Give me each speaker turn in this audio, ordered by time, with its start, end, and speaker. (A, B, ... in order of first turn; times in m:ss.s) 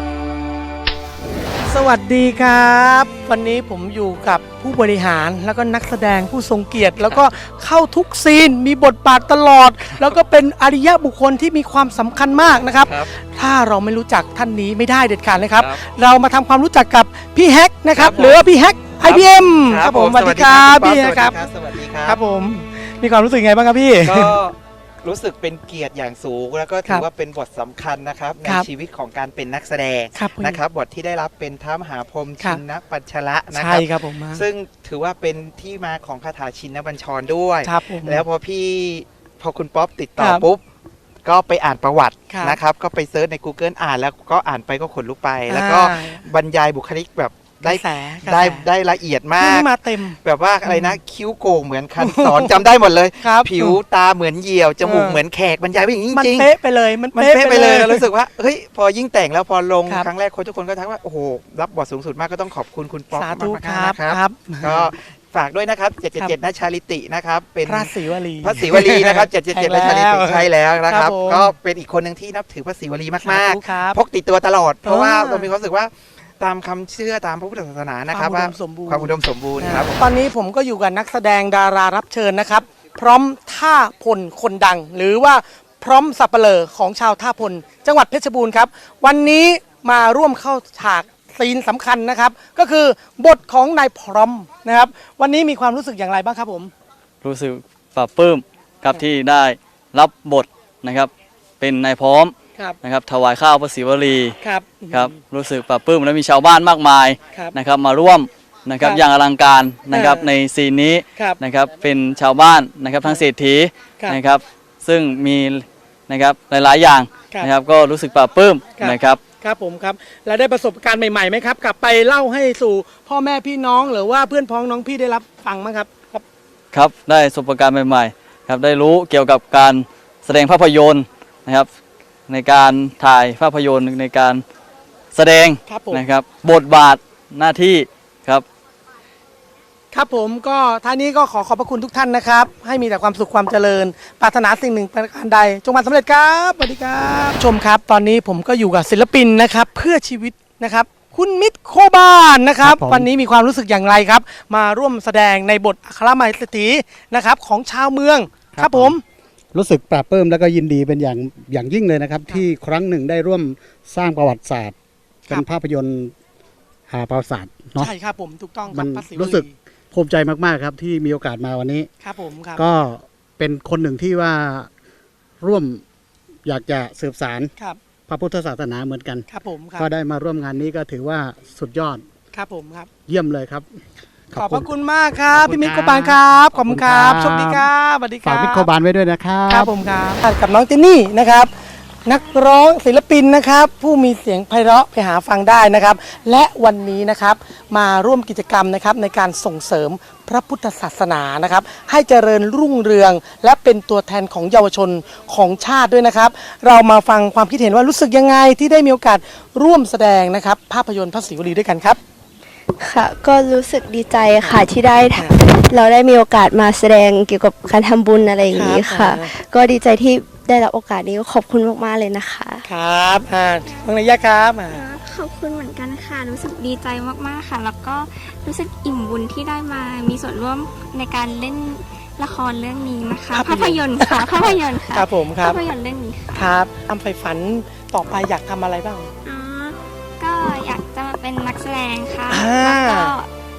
0:01.6-0:21.4 A
0:12.8-0:13.1 B
0:15.6-0:15.8 B
0:17.9-0:18.4 B
0:19.0-0:22.2 B
0:22.0-0:24.4 A
0:24.0-0:40.6 B
0:30.1-0:30.6 A
0:33.5-0:34.4 A
0:37.6-0:38.2 A
0:40.2-0:40.4 A
0:41.2-0:49.7 B
0:42.3-0:42.6 A
0:45.5-0:46.2 A
0:47.6-0:48.6 A
0:49.4-0:51.0 A
0:50.2-0:56.5 B
0:52.0-0:52.6 A
0:53.2-0:53.8 A
0:54.8-0:55.2 A
0:56.1-0:58.1 A
0:57.1-1:20.0 B
1:03.1-1:04.9 A
1:07.6-1:11.5 A
1:13.2-1:14.0 A
1:14.8-1:15.5 A
1:18.1-1:36.7 A
1:37.2-1:44.4 C
1:44.4-1:45.1 A
1:44.9-1:59.2 C
1:49.9-1:50.3 A
1:58.8-2:06.2 A
2:06.7-2:11.7 C
2:12.3-2:14.4 C
2:15.1-2:18.4 C
2:15.6-2:16.0 A
2:19.9-2:39.0 A
2:32.6-2:33.1 D
2:38.5-2:39.0 D
2:39.5-2:44.7 D
2:45.2-2:46.1 D
2:46.9-2:47.9 D
2:47.8-2:49.5 A
2:48.7-2:51.9 D
2:52.0-2:52.6 A
2:52.6-2:54.7 D
2:55.4-2:55.8 D
2:56.4-2:57.5 D
2:58.1-3:02.0 D
2:59.3-2:59.8 A
3:02.3-3:02.9 A
3:03.1-3:03.8 D
3:04.3-3:04.7 D
3:04.3-3:08.7 A
3:05.3-3:07.7 D
3:08.2-3:09.7 D
3:09.5-3:11.5 A
3:12.0-3:32.0 A
3:32.8-3:42.6 E
3:34.4-3:35.3 A
3:38.4-3:39.3 A
3:42.7-3:44.8 A
3:44.7-3:56.6 F
3:53.3-3:55.6 A
3:56.3-3:59.1 A
3:59.2-4:03.3 F
4:02.3-4:03.1 A